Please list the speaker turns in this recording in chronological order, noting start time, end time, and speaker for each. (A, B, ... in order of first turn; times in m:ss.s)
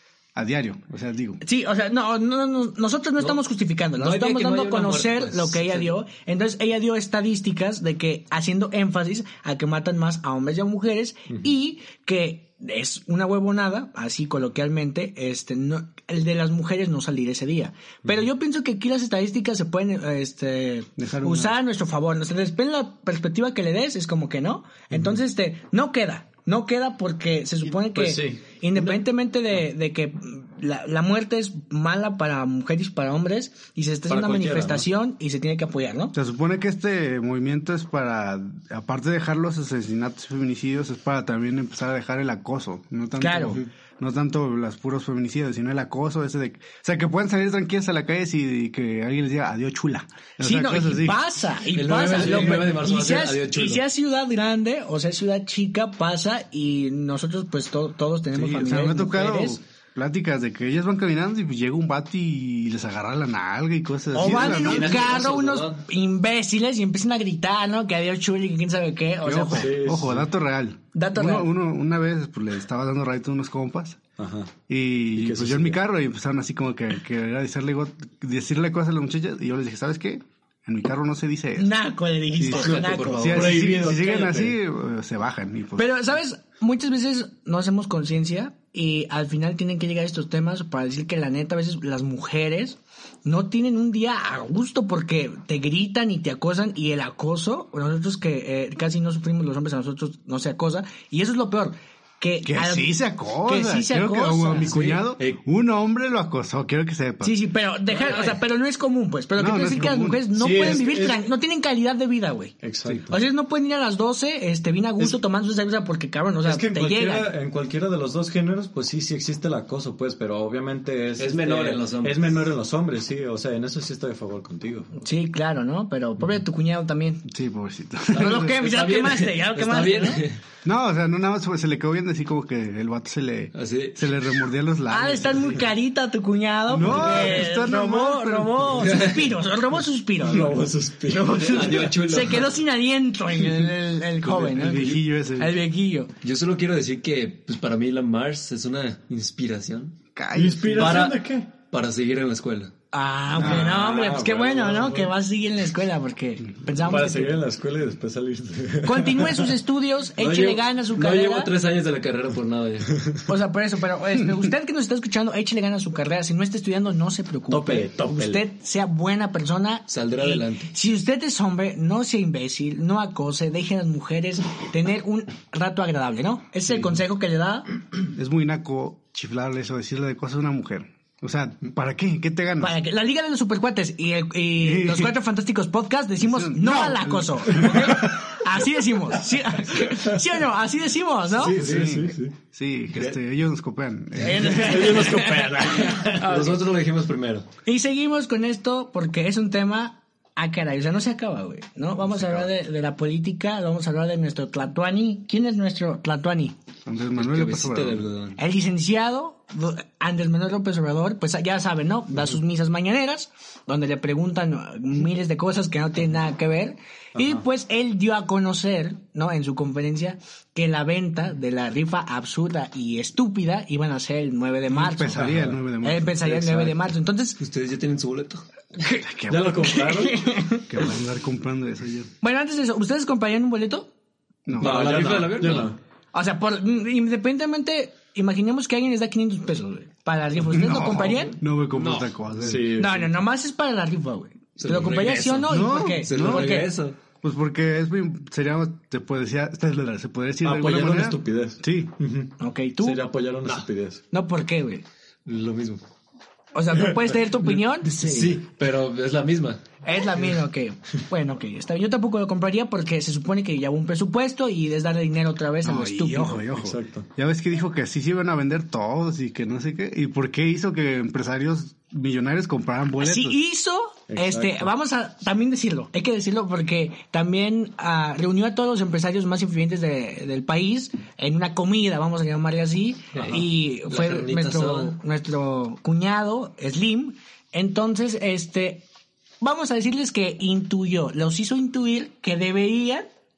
0:00.3-0:01.4 A
0:01.4-0:36.1 B
0:04.0-0:06.0 C
0:21.0-0:21.6 A
0:27.9-0:29.0 D
0:34.1-0:34.9 D
0:36.1-0:51.2 A
0:43.2-0:43.6 B
0:50.4-0:59.6 B
0:51.7-0:53.8 C
0:58.3-1:05.0 A
1:04.1-1:09.7 B
1:04.2-1:05.8 C
1:09.2-1:14.0 A
1:09.5-1:10.3 D
1:10.9-1:11.5 B
1:14.2-1:14.5 D
1:14.7-1:21.7 A
1:15.2-1:15.8 D
1:21.6-1:23.6 B
1:22.4-1:26.0 A
1:22.5-1:23.7 C
1:22.6-1:24.6 D
1:25.8-1:44.8 B
1:42.4-1:47.3 A
1:44.7-1:45.4 C
1:47.2-1:52.5 B
1:47.9-1:48.4 C
1:49.4-1:50.3 A
1:50.3-1:51.2 D
1:52.6-1:53.2 D
1:53.1-1:57.3 B
1:56.4-2:05.0 D
2:01.2-2:02.4 C
2:05.0-2:07.2 B
2:07.2-2:08.5 A
2:08.1-2:10.2 B
2:08.1-2:10.4 C
2:10.6-2:15.6 A
2:13.5-2:14.1 C
2:14.9-2:26.1 B
2:16.7-2:19.0 A
2:18.8-2:19.3 C
2:20.2-2:21.6 D
2:21.4-2:22.5 C
2:24.4-2:25.5 A
2:24.4-2:24.9 C
2:26.2-2:29.9 C
2:30.1-2:31.0 A
2:30.3-2:31.5 D
2:30.7-2:32.7 C
2:32.9-2:37.4 B
2:33.4-2:35.1 D
2:36.8-2:39.6 D
2:38.8-2:41.5 B
2:40.1-2:43.0 C
2:43.3-2:57.7 B
2:47.5-2:48.4 D
2:49.9-2:50.7 C
2:58.1-3:02.8 A
3:02.6-3:11.6 B
3:04.6-3:05.2 A
3:06.2-3:07.9 A
3:11.4-3:12.4 D
3:11.6-3:14.9 A
3:14.2-3:16.6 B
3:14.5-3:16.5 D
3:15.4-3:17.5 C
3:17.6-3:26.5 B
3:26.8-3:28.0 A
3:27.2-3:28.4 C
3:28.4-3:45.2 B
3:37.2-3:37.4 D
3:44.7-3:46.1 A
3:45.2-3:45.6 D
3:45.8-3:47.4 B
3:46.2-3:46.8 D
3:47.4-3:48.4 C
3:48.8-3:49.0 B
3:49.0-3:49.7 A
3:49.3-3:50.3 D
3:49.6-3:50.9 B
3:50.7-3:52.1 A
3:52.2-3:53.9 B
3:54.4-3:54.9 A
3:54.6-3:55.8 D
3:54.6-3:55.7 C
3:56.1-4:01.4 B
4:00.5-4:02.6 A
4:01.7-4:02.1 C
4:02.4-4:03.1 D
4:02.7-4:06.7 B
4:04.6-4:07.0 C
4:05.5-4:06.6 A
4:07.2-4:11.9 A
4:10.4-4:14.0 D
4:12.4-4:13.0 B
4:14.1-4:14.8 B
4:15.2-4:15.8 C
4:16.5-4:18.2 B
4:17.8-4:19.6 C
4:19.8-4:26.4 B
4:25.6-4:33.4 A
4:26.5-4:27.1 D
4:33.0-4:48.8 B
4:34.1-4:34.7 D
4:43.1-4:44.9 C
4:49.4-4:53.1 B